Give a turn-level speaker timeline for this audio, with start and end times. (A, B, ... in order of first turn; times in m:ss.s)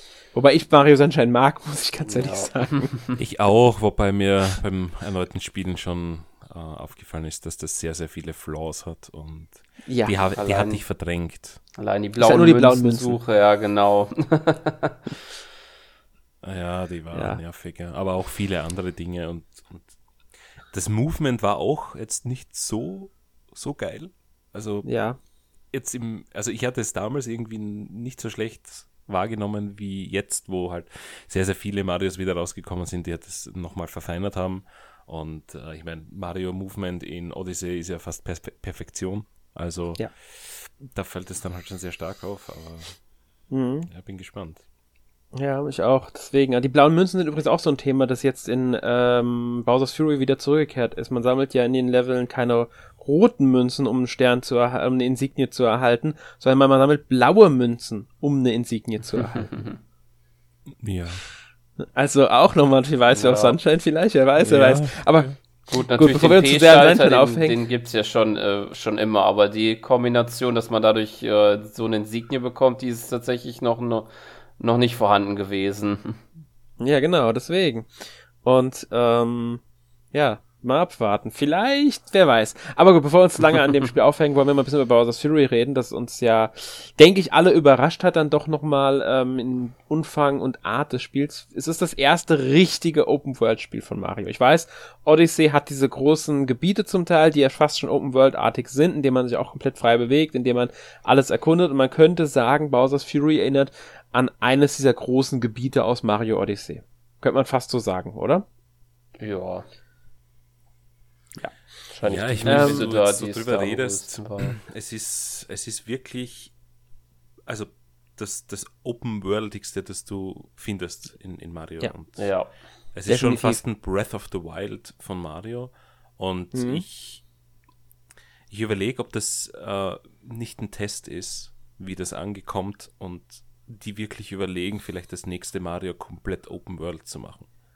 0:00.3-0:02.9 A
0:02.1-0:03.2 B
0:03.2-0:11.6 C
0:09.8-0:10.3 A
0:10.4-0:10.8 B
0:11.8-0:15.0 B
0:12.2-0:13.2 A
0:16.4-0:20.0 C
0:17.1-0:17.4 A
0:20.7-0:24.9 C
0:24.8-0:25.2 A
0:25.7-0:43.0 C
0:43.5-0:43.9 A
0:43.9-0:44.6 C
0:45.4-0:59.6 A
0:59.2-0:59.7 B
1:00.7-1:01.2 C
1:01.8-1:05.4 A
1:03.1-1:03.6 B
1:04.4-1:05.4 C
1:05.7-1:16.2 B
1:05.9-1:07.6 A
1:16.8-1:17.9 A
1:18.4-1:19.6 A
1:20.1-1:48.4 A
1:49.2-1:49.6 B
1:51.9-1:54.6 B
1:52.0-1:56.5 C
1:52.4-1:52.9 A
1:57.5-2:02.4 C
2:02.2-2:02.5 B
2:02.9-2:07.2 C
2:03.1-2:03.6 A
2:06.5-2:06.8 A
2:08.5-2:17.5 C